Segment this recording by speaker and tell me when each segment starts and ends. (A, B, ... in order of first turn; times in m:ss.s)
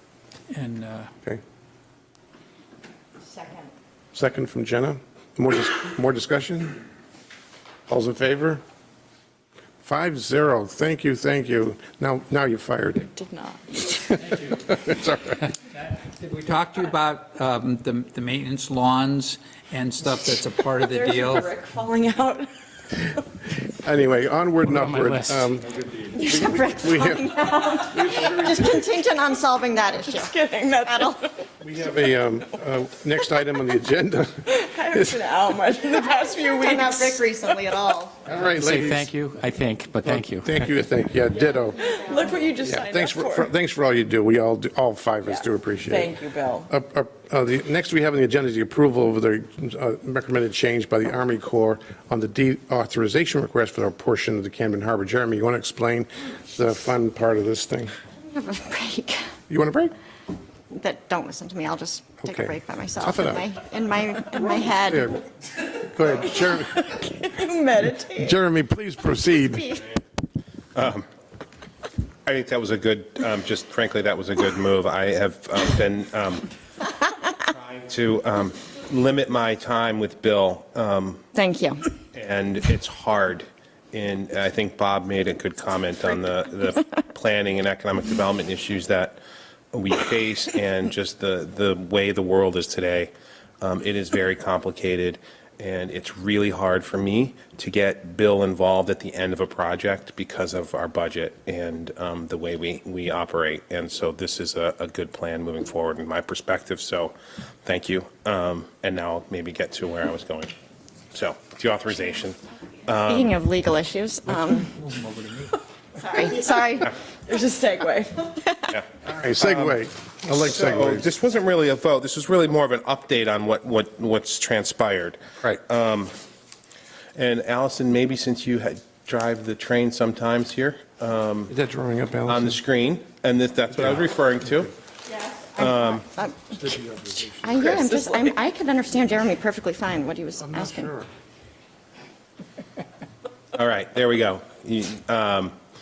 0:00.5-0:01.1 A
0:03.3-0:03.6 B
0:04.1-0:06.8 C
0:07.9-0:08.6 C
0:09.8-0:13.1 C
0:13.0-0:14.2 D
0:14.3-0:15.4 C
0:15.7-0:21.5 A
0:20.7-0:23.2 D
0:23.7-0:28.8 C
0:24.7-0:25.5 E
0:26.1-0:31.2 B
0:29.9-0:31.4 D
0:31.6-0:35.2 C
0:34.5-0:37.2 D
0:36.0-0:38.2 B
0:38.2-0:39.1 C
0:38.4-0:40.7 E
0:40.0-0:41.8 C
0:41.4-0:42.4 B
0:41.8-0:43.5 D
0:42.6-0:46.2 C
0:45.3-0:46.7 D
0:46.7-0:57.9 C
0:58.2-0:59.2 B
0:59.5-0:59.9 C
1:00.7-1:05.1 B
1:02.2-1:03.4 C
1:04.8-1:05.2 C
1:05.8-1:07.0 C
1:06.9-1:08.4 D
1:08.2-1:09.7 C
1:09.4-1:09.9 B
1:10.7-1:11.0 F
1:12.2-1:16.5 F
1:17.3-1:21.2 F
1:21.3-1:21.8 B
1:22.1-1:29.2 F
1:29.7-1:50.5 F
1:51.1-1:53.3 F
1:53.0-1:54.8 B
1:54.8-1:55.5 A
1:56.0-1:56.9 B
1:57.2-1:58.3 D
1:59.0-2:01.1 C
1:59.4-1:59.8 F
2:00.3-2:06.1 F
2:07.2-2:11.5 F
2:11.5-2:12.6 C
2:12.2-2:14.7 F
2:13.7-2:14.0 C
2:15.6-2:16.0 F
2:15.6-2:16.5 B
2:16.5-2:17.7 C
2:17.4-2:20.9 B
2:17.8-2:18.3 D
2:20.4-2:21.1 C
2:23.5-2:25.5 F